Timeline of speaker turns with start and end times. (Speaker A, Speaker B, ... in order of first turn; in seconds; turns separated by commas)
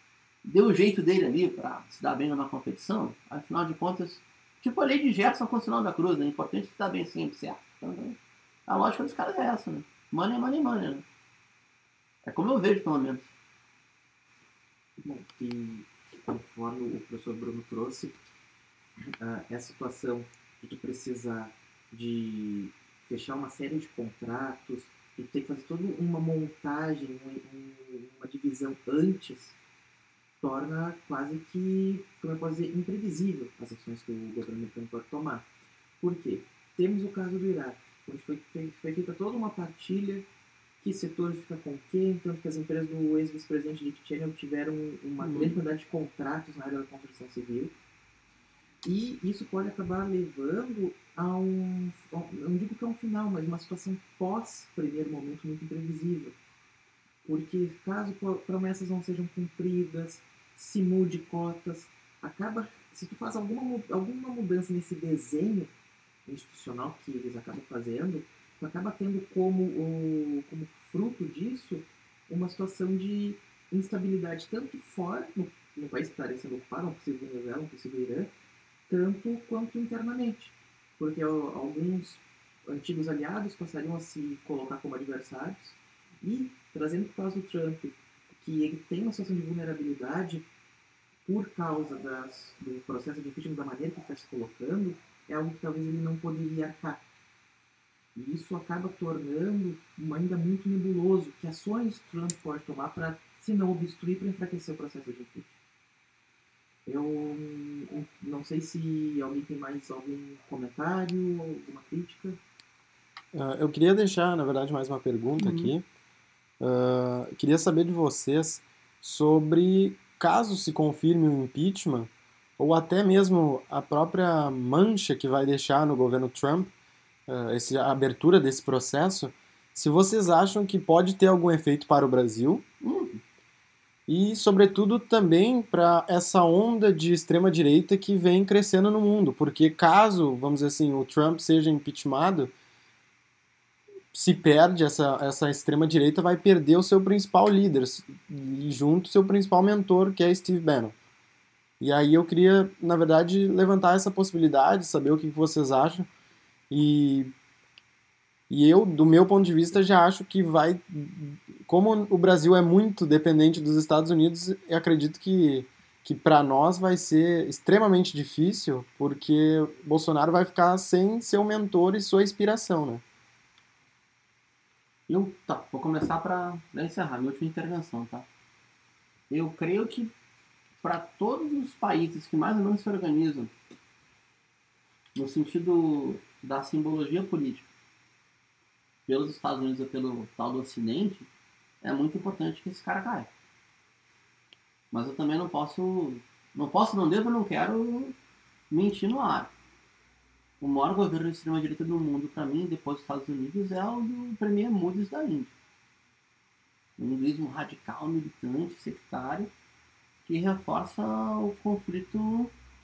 Speaker A: 0.4-11.0, Speaker A: 12.2-13.3, Speaker B: 15.0-18.2, Speaker B: 19.2-29.6, Speaker B: 30.4-35.5, Speaker B: 36.0-40.3, Speaker B: 40.8-47.7, Speaker A: 45.2-45.6, Speaker B: 48.8-56.4, Speaker B: 57.2-65.7, Speaker B: 66.2-78.3, Speaker B: 78.9-90.4, Speaker B: 91.2-97.0, Speaker B: 98.1-105.5, Speaker B: 106.8-112.4, Speaker C: 113.3-115.8, Speaker A: 115.4-115.7, Speaker C: 116.6-126.7, Speaker C: 127.3-132.6, Speaker A: 132.8-133.2, Speaker C: 134.1-142.5, Speaker C: 144.1-150.9, Speaker C: 151.8-156.1, Speaker C: 156.7-157.3, Speaker C: 158.5-173.0, Speaker A: 175.1-178.3, Speaker A: 179.3-180.1, Speaker A: 180.8-183.5, Speaker A: 185.2-187.7, Speaker A: 189.1-191.3, Speaker A: 191.8-193.3, Speaker A: 194.9-198.2, Speaker A: 198.7-199.5, Speaker A: 200.6-205.5, Speaker A: 207.0-209.5, Speaker A: 210.2-212.5